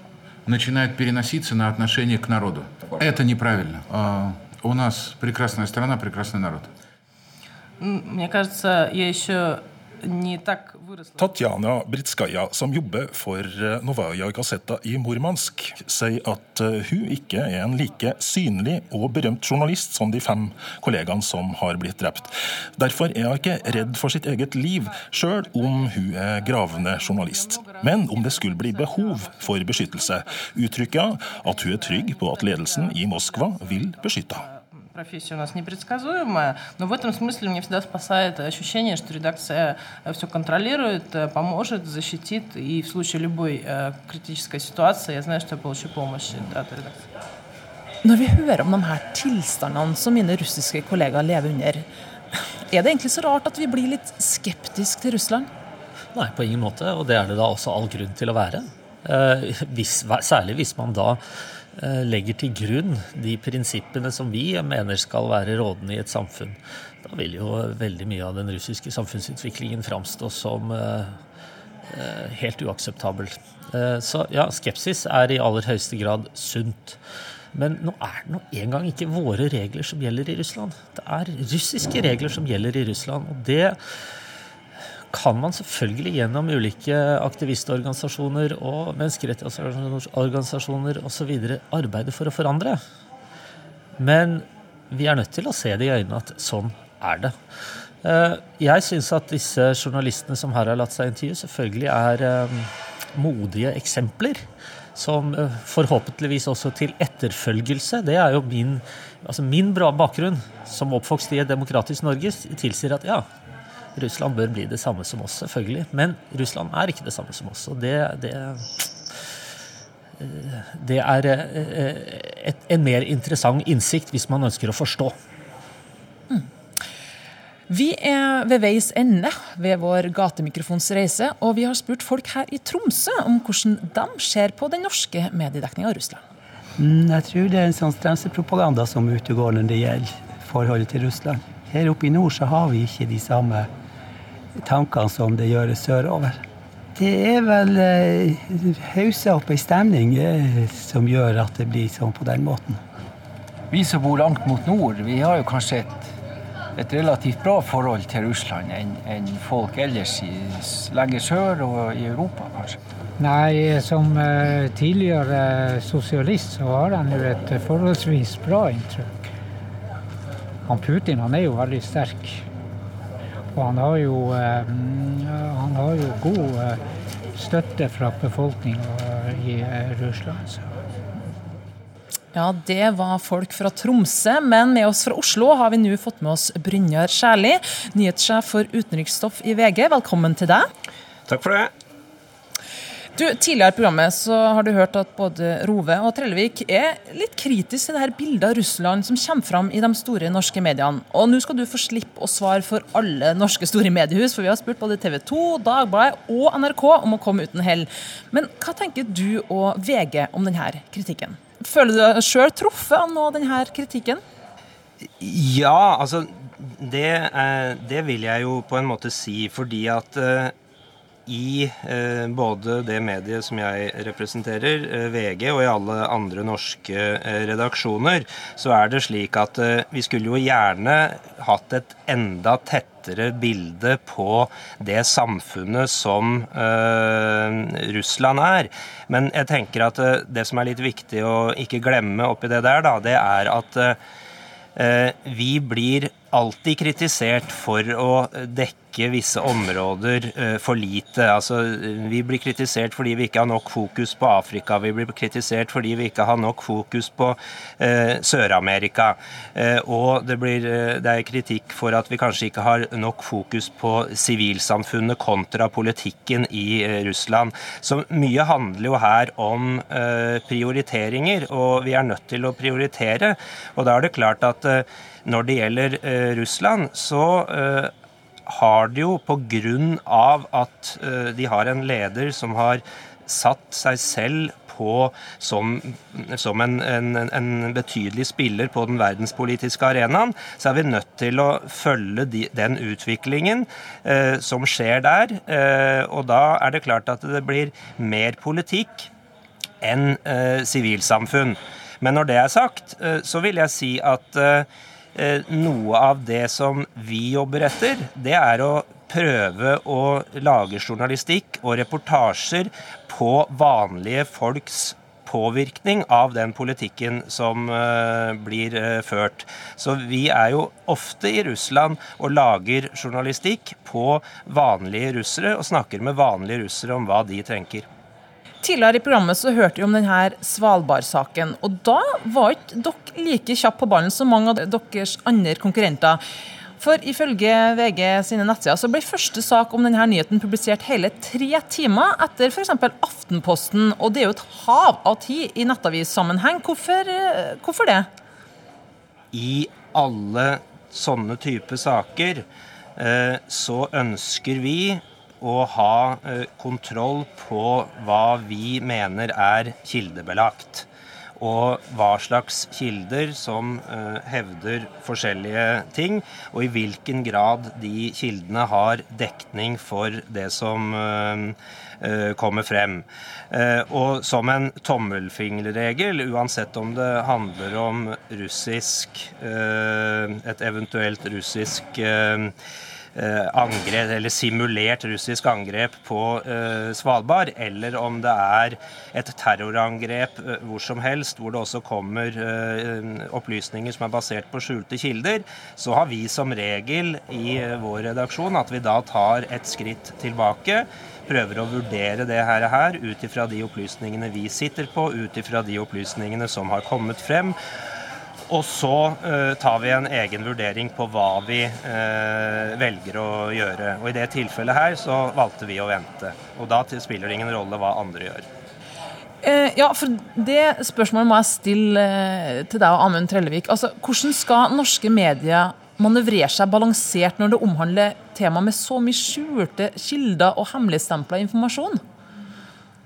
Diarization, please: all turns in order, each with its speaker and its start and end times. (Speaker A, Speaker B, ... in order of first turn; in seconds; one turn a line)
Speaker A: 0.5-6.7
Speaker B: 7.8-11.4
Speaker C: 11.2-34.5
Speaker B: 25.4-25.9
Speaker B: 26.6-47.1
Speaker D: 48.0-55.5
Speaker E: 56.1-61.2
Speaker E: 61.8-71.2
Speaker E: 71.9-77.0
Speaker E: 77.5-83.8
Speaker E: 85.1-92.8
Speaker E: 94.0-97.3
Speaker E: 98.0-104.4
Speaker E: 105.0-113.3
Speaker E: 114.0-118.9
Speaker E: 120.2-125.1
Speaker D: 127.7-136.2
Speaker F: 136.8-143.7
Speaker F: 144.6-146.4
Speaker F: 146.9-152.8
Speaker G: 153.7-156.1
Speaker G: 156.8-162.8
Speaker H: 163.2-169.3
Speaker H: 170.7-172.4
Speaker H: 173.5-176.8
Speaker H: 177.4-180.7
Speaker D: 182.3-190.7
Speaker I: 191.3-191.7
Speaker D: 193.1-214.2
Speaker I: 215.2-220.5
Speaker I: 221.3-244.0
Speaker I: 244.8-277.9
Speaker I: 278.5-299.1
Speaker I: 299.8-327.9
Speaker D: 328.6-336.2
Speaker D: 336.8-348.1
Speaker I: 349.3-352.4
Speaker I: 353.0-360.9
Speaker I: 361.4-382.6
Speaker I: 383.1-407.6
Speaker I: 408.5-418.5
Speaker D: 419.4-432.0